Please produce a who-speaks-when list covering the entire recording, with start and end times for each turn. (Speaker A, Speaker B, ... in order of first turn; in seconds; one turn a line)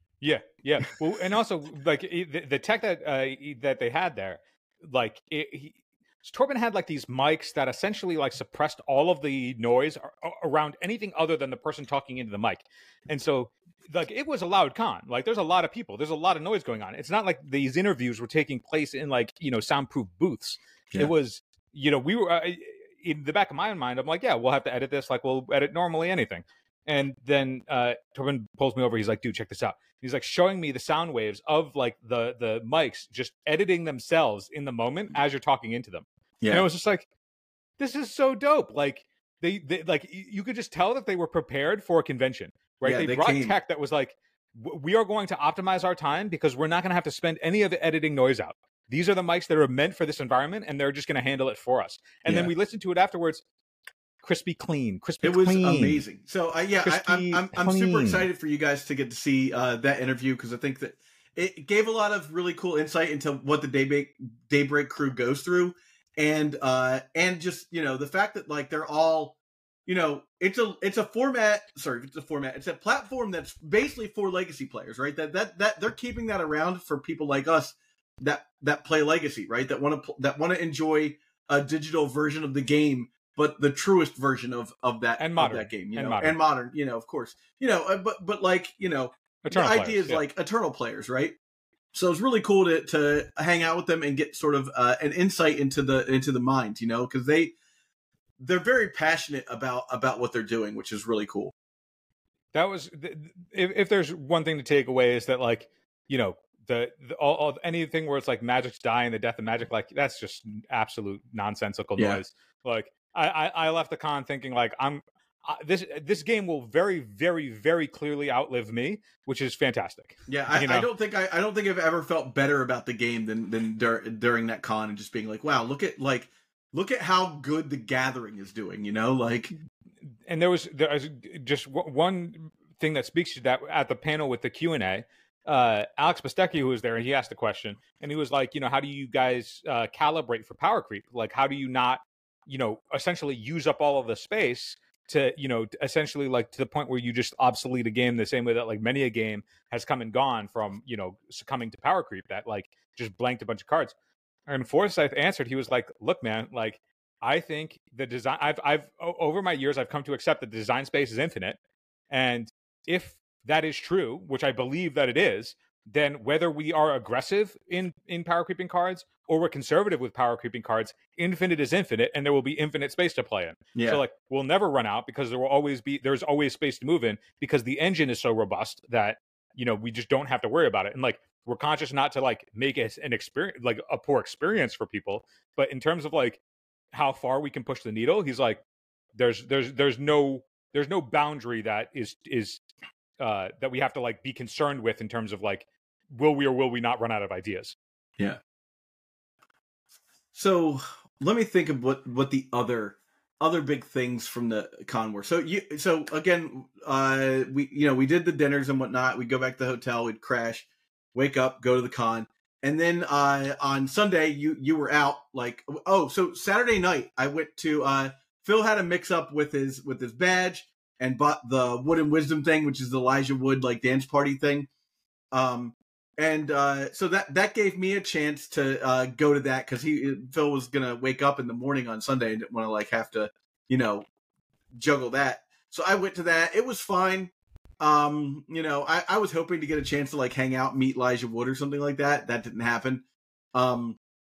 Speaker A: 0.2-37.0
Speaker B: 36.4-36.6
Speaker A: 37.8-53.4
Speaker B: 42.8-43.5
Speaker B: 52.2-52.5
Speaker A: 54.2-56.0
Speaker B: 55.2-91.3
Speaker A: 56.8-58.3
Speaker A: 85.2-86.4
Speaker A: 89.4-90.2
Speaker B: 91.9-97.5
Speaker B: 98.4-101.5
Speaker A: 102.5-120.9
Speaker B: 120.3-129.5
Speaker A: 130.2-153.9
Speaker A: 154.5-161.6
Speaker A: 162.1-186.4
Speaker B: 173.7-174.0
Speaker A: 186.9-188.6
Speaker A: 189.2-192.6
Speaker A: 193.2-197.8
Speaker B: 200.3-224.7
Speaker B: 225.3-234.1
Speaker B: 234.7-244.0